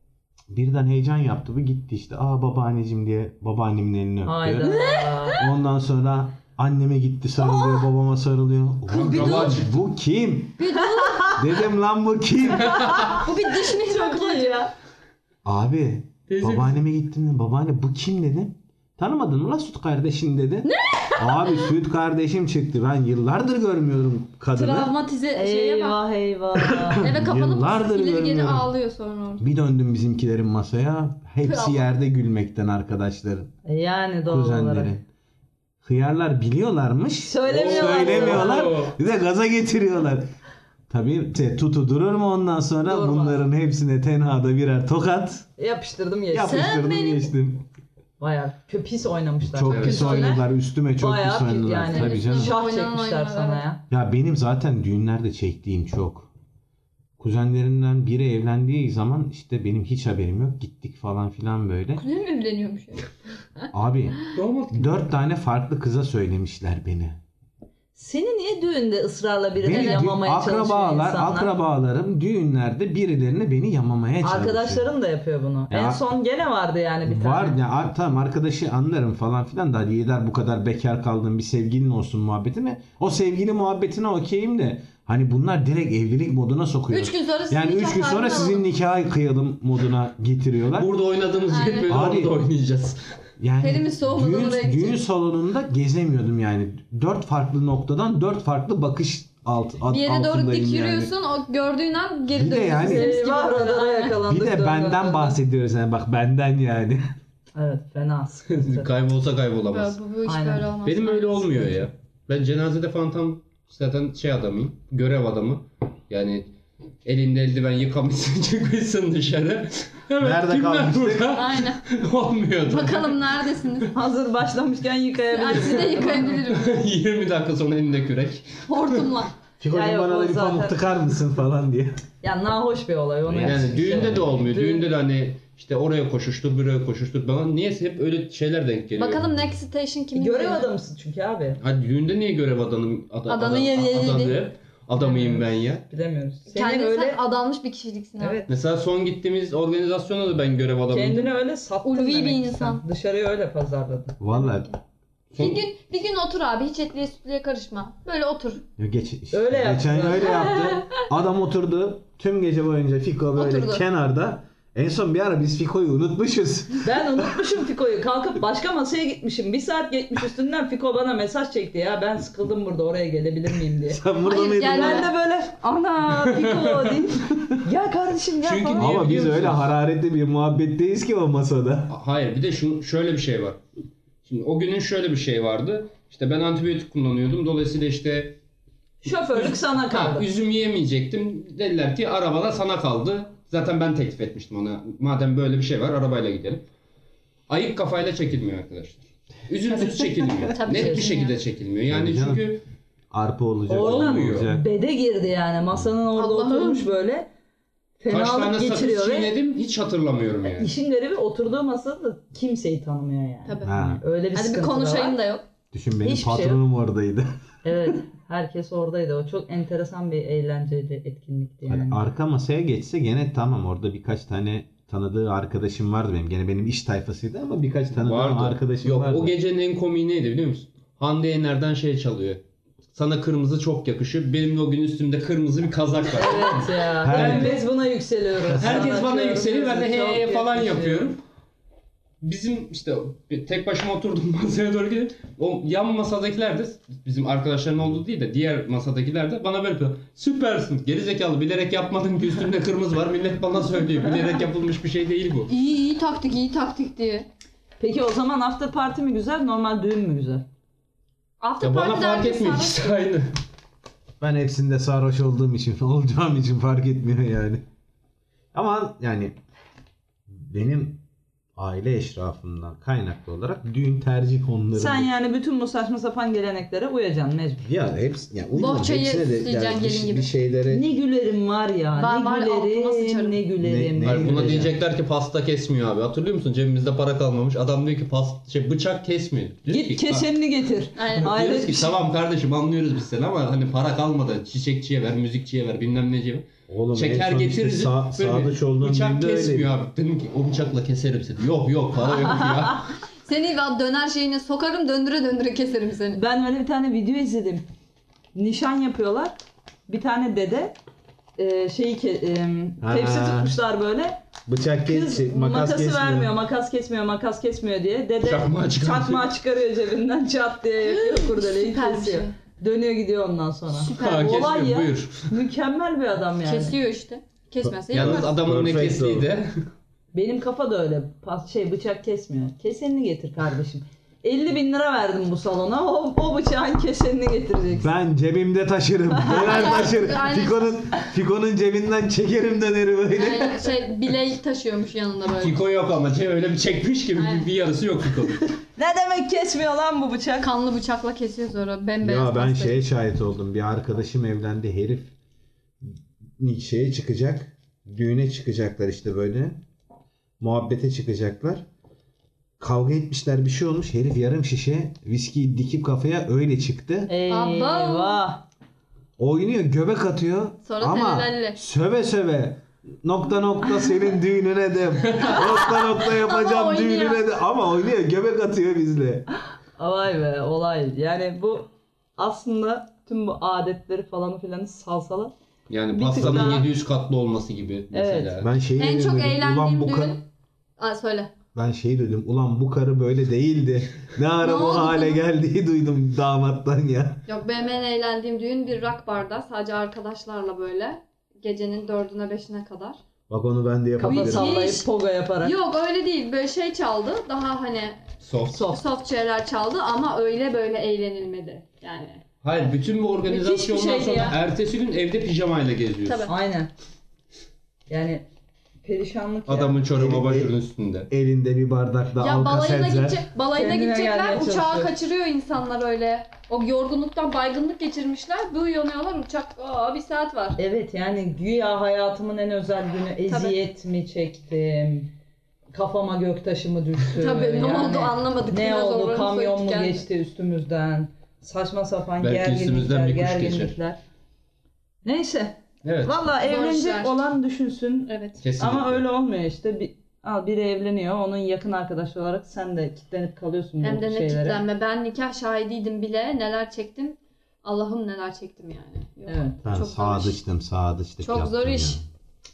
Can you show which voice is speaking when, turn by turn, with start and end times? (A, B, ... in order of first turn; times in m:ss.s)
0:00.5-0:04.7 A
0:04.2-0:05.4 B
0:04.6-0:05.4 C
0:05.4-0:10.8 A
0:08.9-0:09.7 D
0:09.0-0:09.5 B
0:09.1-0:09.3 C
0:10.6-0:11.4 C
0:11.0-0:11.4 B
0:11.3-0:12.9 A
0:12.6-0:13.1 D
0:12.8-0:14.7 B
0:13.1-0:14.7 C
0:15.4-0:24.9 A
0:16.3-0:16.8 D
0:20.6-0:21.7 C
0:24.5-0:26.0 C
0:25.3-0:27.0 B
0:27.0-0:28.7 A
0:27.0-0:29.4 C
0:29.4-0:33.5 A
0:31.4-0:31.8 C
0:33.6-0:34.9 B
0:34.2-0:35.0 A
0:35.8-0:40.3 A
0:37.2-0:38.7 B
0:37.5-0:38.9 D
0:40.9-0:45.5 A
0:42.8-0:43.4 B
0:45.6-0:46.6 B
0:46.3-0:47.6 A
0:46.4-0:47.3 C
0:48.2-0:50.4 B
0:49.4-0:52.6 A
0:49.6-0:50.3 D
0:50.0-0:50.3 C
0:51.0-0:53.8 B
0:51.8-0:53.6 C
0:53.9-0:56.3 A
0:57.2-1:02.0 A
1:02.0-1:03.7 C
1:03.7-1:07.2 A
1:04.3-1:05.0 D
1:07.9-1:11.5 B
1:09.6-1:14.9 A
1:09.7-1:10.0 C
1:14.2-1:17.6 B
1:15.7-1:16.0 A
1:17.0-1:30.9 A
1:26.9-1:28.6 C
1:30.7-1:33.0 D
1:31.5-1:31.9 C
1:31.9-1:32.4 A
1:33.4-1:41.1 A
1:33.6-1:35.0 C
1:39.9-1:44.2 C
1:42.3-1:43.1 A
1:42.8-1:45.4 B
1:44.2-1:47.1 A
1:47.5-1:48.9 B
1:48.5-1:50.0 D
1:49.6-1:51.8 C
1:50.3-1:50.7 B
1:50.8-2:03.2 D
2:00.2-2:01.4 A
2:01.3-2:01.8 C
2:02.7-2:03.9 C
2:03.9-2:06.4 B
2:05.3-2:06.8 C
2:05.6-2:09.1 D
2:08.7-2:09.3 C
2:09.6-2:12.0 A
2:09.7-2:10.8 B
2:12.2-2:14.9 B
2:13.2-2:14.2 A
2:13.4-2:19.3 D
2:19.0-2:20.7 C
2:20.1-2:21.6 B
2:21.6-2:25.8 D
2:23.3-2:24.5 C
2:25.0-2:27.2 B
2:26.5-2:28.4 C
2:28.2-2:28.5 B
2:28.5-2:31.4 D
2:30.9-2:34.2 B
2:31.8-2:32.8 C
2:34.2-2:34.7 A
2:34.3-2:34.8 C
2:35.3-2:35.6 D
2:35.4-2:38.6 C
2:38.8-2:47.4 A
2:39.3-2:40.5 B
2:40.2-2:40.8 C
2:43.3-2:43.8 C
2:46.8-2:54.0 B
2:53.8-2:55.1 A
2:54.2-2:55.1 C
2:54.7-2:59.0 B
2:56.1-2:56.9 D
2:58.4-2:59.7 D
2:58.8-3:02.0 A
3:01.9-3:03.6 D
3:04.2-3:08.4 D
3:09.0-3:10.2 B
3:09.3-3:16.7 D
3:17.5-3:22.6 D
3:19.7-3:21.4 C
3:20.7-3:21.0 B
3:21.9-3:22.5 A
3:23.1-3:24.7 A
3:23.7-3:27.3 B
3:23.8-3:24.5 D
3:26.1-3:26.8 C
3:28.0-3:29.3 B
3:28.1-3:30.7 D
3:30.5-3:35.2 B
3:33.4-3:35.4 C
3:33.6-3:34.0 A
3:35.7-3:37.3 A
3:36.0-3:36.6 B
3:37.6-3:42.0 B
3:41.7-3:49.3 A
3:47.9-3:52.4 D
3:52.9-3:57.6 D
3:56.1-4:01.1 B
3:57.0-3:57.6 A
3:58.4-3:58.8 A
3:58.6-4:01.2 D
4:02.2-4:15.5 D
4:15.5-4:17.3 C
4:17.8-4:20.4 B
4:21.4-4:23.0 C
4:21.6-4:23.3 D
4:24.2-4:27.6 A
4:28.5-4:29.4 A
4:30.3-4:31.0 A
4:31.6-4:35.1 A
4:34.7-4:37.7 B
4:37.6-4:40.9 A
4:38.5-4:40.3 C
4:40.7-4:44.5 B
4:41.9-4:43.4 C
4:43.6-4:44.8 A
4:44.0-4:50.2 D
4:49.7-4:51.9 B
4:51.0-4:51.3 C
4:51.2-5:02.9 D
4:56.7-4:59.7 A
5:03.2-5:06.2 C
5:06.1-5:07.6 B
5:08.3-5:09.4 B
5:09.9-5:10.8 B
5:11.4-5:14.2 B
5:12.8-5:13.5 A
5:14.4-5:16.4 A
5:14.8-5:26.7 B
5:18.2-5:19.3 D
5:20.8-5:22.3 C
5:23.7-5:24.4 C
5:23.9-5:25.3 D
5:26.4-5:28.3 C
5:27.6-5:29.3 A
5:27.9-5:29.5 D
5:30.1-5:37.9 B
5:37.8-5:43.8 A
5:39.2-5:39.4 B
5:39.3-5:39.9 D
5:39.4-5:40.8 C
5:43.1-5:45.5 C
5:45.2-5:48.5 D
5:47.1-5:47.5 C
5:48.8-5:50.5 B
5:50.4-5:52.8 C
5:52.0-5:55.1 A
5:55.8-5:59.6 A
6:00.4-6:01.6 A
6:02.6-6:07.1 A
6:07.1-6:08.4 B
6:07.3-6:08.2 C
6:09.2-6:19.2 A
6:10.6-6:11.6 C
6:15.2-6:17.4 C
6:19.8-6:25.3 B
6:25.7-6:28.5 D
6:25.9-6:26.7 B
6:26.2-6:26.6 A
6:27.9-6:28.3 B
6:28.4-6:30.2 A
6:28.8-6:30.2 C
6:30.8-6:31.3 C
6:31.5-6:37.2 A
6:34.4-6:35.2 C
6:37.3-6:43.0 C
6:43.3-6:44.8 A
6:44.0-6:45.5 B
6:44.0-6:44.9 C
6:45.4-6:48.1 C
6:48.2-6:48.7 D
6:48.5-6:48.8 B
6:48.7-6:52.2 C
6:52.4-6:56.3 D
6:53.2-6:54.4 C
6:56.0-6:56.3 C
6:56.3-6:56.7 B
6:57.9-6:58.2 B
6:58.8-6:59.8 B
6:59.5-7:01.1 D
7:00.0-7:00.5 A
7:01.1-7:03.3 A
7:02.2-7:10.6 C
7:03.5-7:04.9 B
7:10.6-7:15.1 B
7:13.3-7:13.6 C
7:15.7-7:24.0 B
7:17.2-7:20.0 C
7:22.2-7:23.7 D
7:25.0-7:34.6 B
7:25.8-7:26.2 D
7:26.4-7:27.2 C
7:28.1-7:28.4 C
7:28.4-7:29.0 D
7:33.8-7:40.4 C
7:39.3-7:39.6 B
7:39.6-7:42.0 A
7:41.2-7:42.0 C